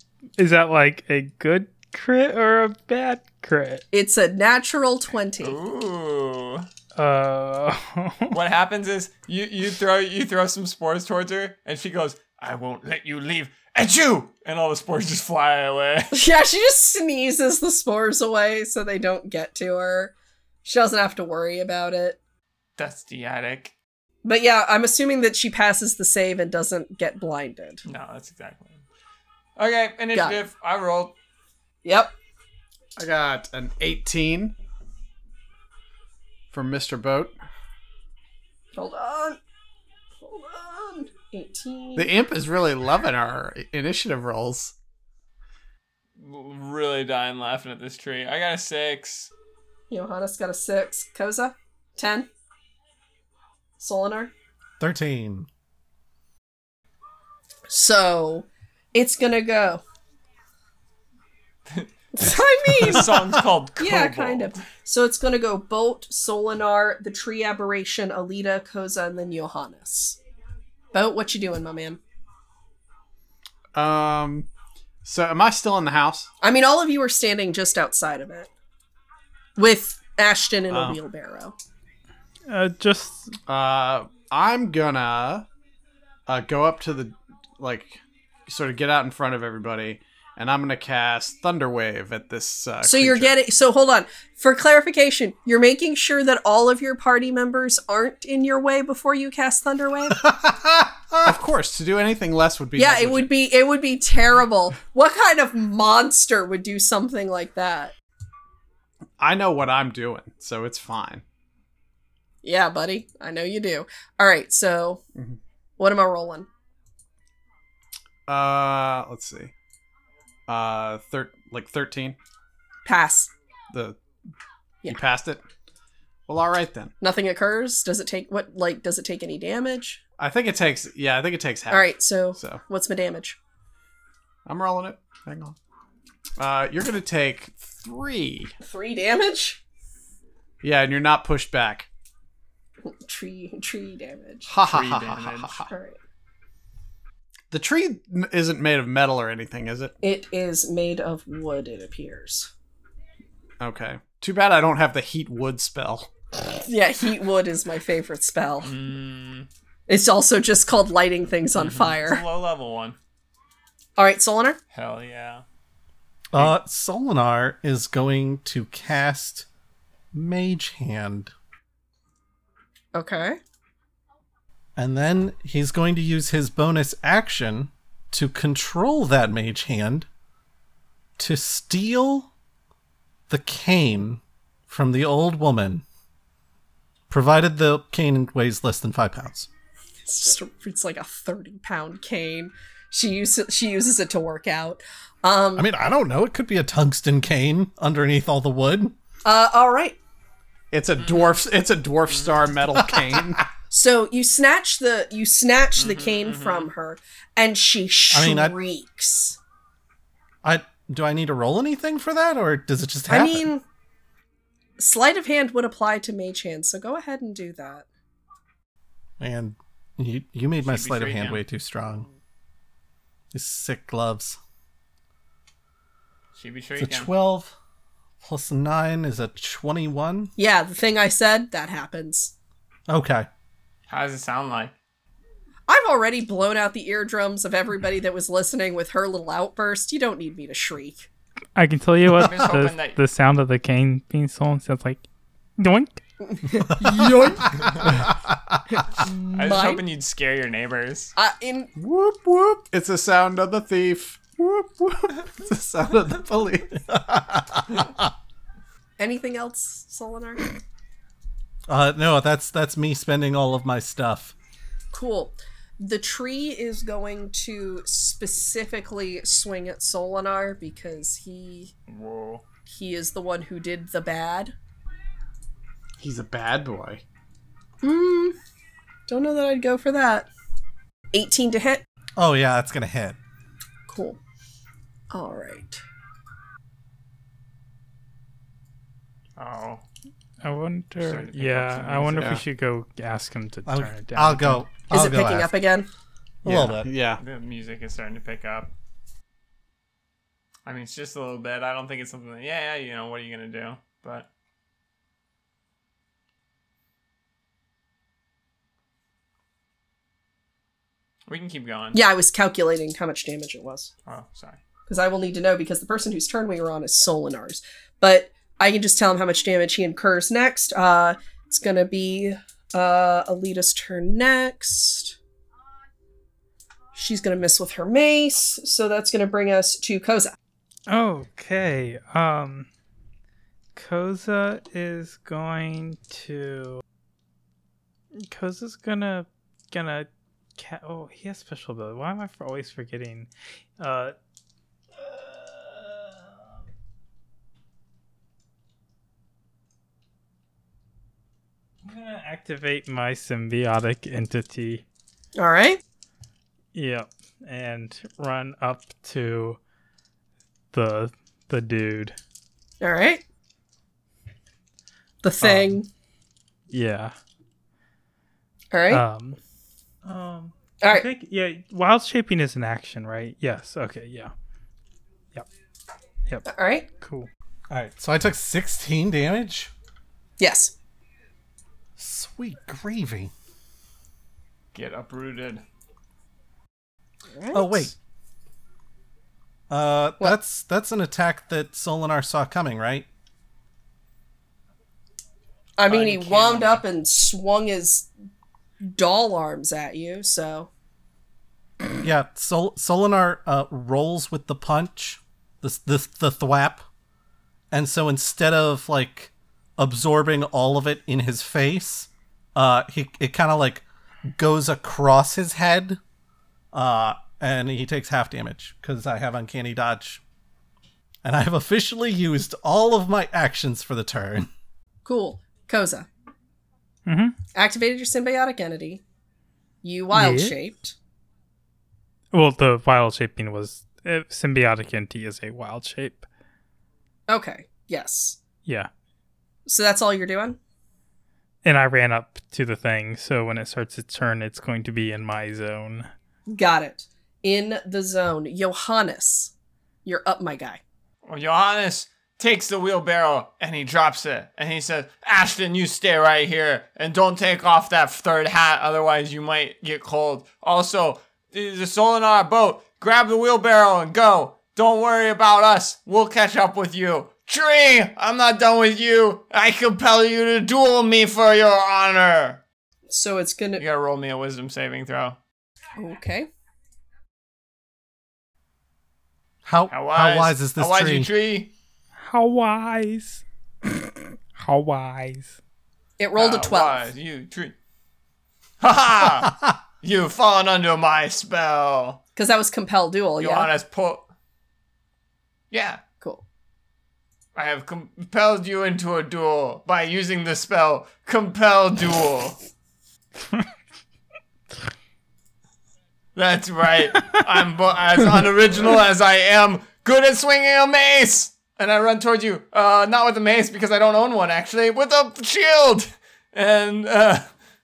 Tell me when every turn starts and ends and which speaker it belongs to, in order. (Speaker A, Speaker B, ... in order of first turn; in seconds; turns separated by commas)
Speaker A: 0.4-3.8, Speaker B: 3.9-5.6, Speaker C: 5.4-6.7, Speaker A: 7.0-8.4, Speaker C: 8.3-16.1, Speaker B: 16.1-20.1, Speaker B: 20.6-22.2, Speaker C: 22.8-23.7, Speaker B: 24.2-27.8, Speaker C: 27.9-28.8, Speaker C: 29.6-31.2, Speaker B: 31.8-32.1, Speaker D: 33.0-34.5, Speaker D: 36.5-37.4, Speaker B: 38.7-39.4, Speaker B: 40.2-42.1, Speaker D: 42.0-44.8, Speaker C: 46.2-49.3, Speaker B: 49.9-52.3, Speaker B: 53.8-54.3, Speaker E: 54.8-55.5, Speaker B: 57.7-59.8, Speaker C: 61.7-64.6, Speaker B: 62.1-70.2, Speaker B: 70.9-72.0, Speaker D: 73.8-74.5, Speaker D: 75.0-76.3, Speaker B: 76.4-78.5, Speaker B: 79.6-81.5, Speaker D: 80.7-81.0, Speaker A: 82.5-83.4, Speaker D: 83.5-85.5, Speaker D: 86.3-93.4, Speaker B: 92.8-100.3, Speaker E: 100.2-101.4, Speaker D: 101.2-103.3, Speaker B: 102.8-107.9, Speaker D: 109.2-111.2, Speaker B: 112.4-115.0, Speaker B: 115.8-116.5, Speaker D: 118.3-119.5, Speaker D: 120.5-122.2, Speaker B: 122.8-123.3, Speaker D: 123.7-124.0, Speaker D: 124.9-125.4, Speaker D: 126.3-126.9, Speaker B: 127.0-130.0, Speaker D: 130.2-132.6, Speaker B: 131.7-133.4, Speaker D: 134.5-135.6, Speaker D: 136.4-138.5, Speaker B: 138.6-139.6, Speaker D: 140.6-141.9, Speaker B: 142.8-144.5, Speaker D: 144.5-145.7, Speaker C: 144.6-145.6, Speaker B: 145.7-146.0, Speaker D: 147.5-149.9, Speaker B: 150.0-152.5, Speaker D: 153.6-156.1, Speaker B: 156.4-158.7, Speaker C: 158.6-159.5, Speaker B: 159.9-162.2, Speaker C: 161.6-163.0, Speaker B: 164.0-164.6, Speaker C: 164.7-165.4, Speaker E: 166.3-169.5, Speaker E: 170.1-171.3, Speaker B: 172.9-173.4, Speaker E: 174.8-180.1, Speaker E: 181.2-182.3, Speaker E: 183.3-185.8, Speaker E: 187.1-189.5, Speaker B: 190.1-195.7, Speaker E: 195.6-199.0, Speaker B: 199.2-200.0, Speaker D: 200.7-203.4, Speaker C: 201.0-201.3, Speaker C: 202.1-202.5, Speaker B: 203.7-209.4, Speaker C: 205.8-206.7, Speaker E: 208.1-208.6, Speaker E: 210.4-213.5, Speaker B: 213.1-213.6, Speaker B: 214.8-217.9, Speaker E: 219.2-222.1, Speaker C: 220.6-221.4, Speaker E: 223.3-224.4, Speaker C: 226.3-227.1, Speaker E: 226.8-227.6, Speaker E: 228.2-230.3, Speaker B: 230.4-232.3, Speaker E: 232.9-233.3, Speaker C: 233.9-234.7, Speaker B: 235.7-241.1, Speaker A: 241.6-245.0, Speaker C: 242.2-243.0, Speaker A: 245.6-246.0, Speaker B: 246.2-247.5, Speaker D: 246.8-248.0, Speaker C: 247.6-247.9, Speaker E: 248.3-248.6, Speaker B: 249.0-249.8, Speaker C: 249.3-251.1, Speaker B: 251.2-251.7, Speaker D: 251.8-256.7, Speaker E: 255.5-258.0, Speaker B: 259.0-260.6, Speaker E: 261.7-264.3, Speaker B: 264.9-271.7, Speaker C: 271.9-272.4, Speaker B: 272.7-274.5, Speaker D: 276.0-277.0, Speaker B: 277.8-278.4, Speaker B: 279.1-280.3, Speaker B: 281.1-281.8, Speaker E: 282.2-283.2, Speaker B: 283.9-284.2, Speaker B: 285.1-285.8, Speaker C: 289.4-289.8, Speaker A: 290.4-294.6, Speaker C: 291.0-292.3, Speaker D: 292.2-292.4, Speaker E: 293.7-295.5, Speaker B: 294.9-295.9, Speaker E: 296.4-296.9, Speaker D: 296.6-297.2, Speaker C: 297.2-298.7, Speaker C: 300.7-304.3, Speaker C: 311.3-312.0, Speaker B: 311.9-313.9, Speaker C: 314.1-314.6, Speaker B: 314.9-325.2, Speaker B: 326.9-330.4, Speaker A: 330.9-332.7, Speaker A: 333.8-336.8, Speaker A: 338.1-344.1, Speaker A: 345.0-346.4, Speaker A: 351.9-354.8, Speaker B: 355.4-355.8, Speaker A: 356.7-359.6, Speaker A: 360.7-362.2, Speaker B: 362.8-363.2, Speaker B: 365.2-365.9, Speaker A: 365.4-365.7, Speaker A: 366.7-367.1, Speaker B: 368.7-369.0, Speaker A: 368.9-369.4, Speaker A: 370.1-374.3, Speaker B: 376.5-376.9, Speaker A: 377.0-377.3, Speaker E: 377.7-379.7, Speaker B: 380.4-380.7, Speaker E: 382.0-383.3, Speaker C: 384.7-385.6, Speaker B: 387.3-387.9, Speaker E: 387.5-387.9, Speaker E: 389.7-393.1, Speaker B: 395.8-398.1, Speaker C: 395.9-396.8, Speaker B: 398.8-400.7, Speaker E: 402.0-406.9, Speaker E: 407.7-416.0, Speaker E: 416.7-420.2, Speaker E: 421.2-424.5, Speaker B: 425.1-426.1, Speaker A: 427.1-427.4, Speaker B: 427.6-429.0, Speaker B: 429.8-430.9, Speaker A: 430.1-430.6, Speaker A: 432.3-436.3, Speaker B: 437.3-438.4, Speaker B: 439.7-440.6, Speaker A: 441.6-446.1, Speaker B: 446.5-449.5, Speaker B: 450.1-450.8, Speaker C: 451.2-472.6, Speaker B: 473.1-473.8, Speaker C: 473.8-475.4, Speaker B: 476.0-476.5, Speaker E: 479.6-481.3, Speaker C: 479.9-481.7, Speaker A: 482.2-483.4, Speaker A: 484.6-485.6, Speaker B: 486.2-487.1, Speaker C: 486.4-487.8, Speaker C: 488.8-492.2, Speaker B: 492.4-493.7, Speaker C: 493.4-494.3, Speaker C: 495.7-496.0, Speaker C: 497.6-502.6, Speaker C: 506.4-517.5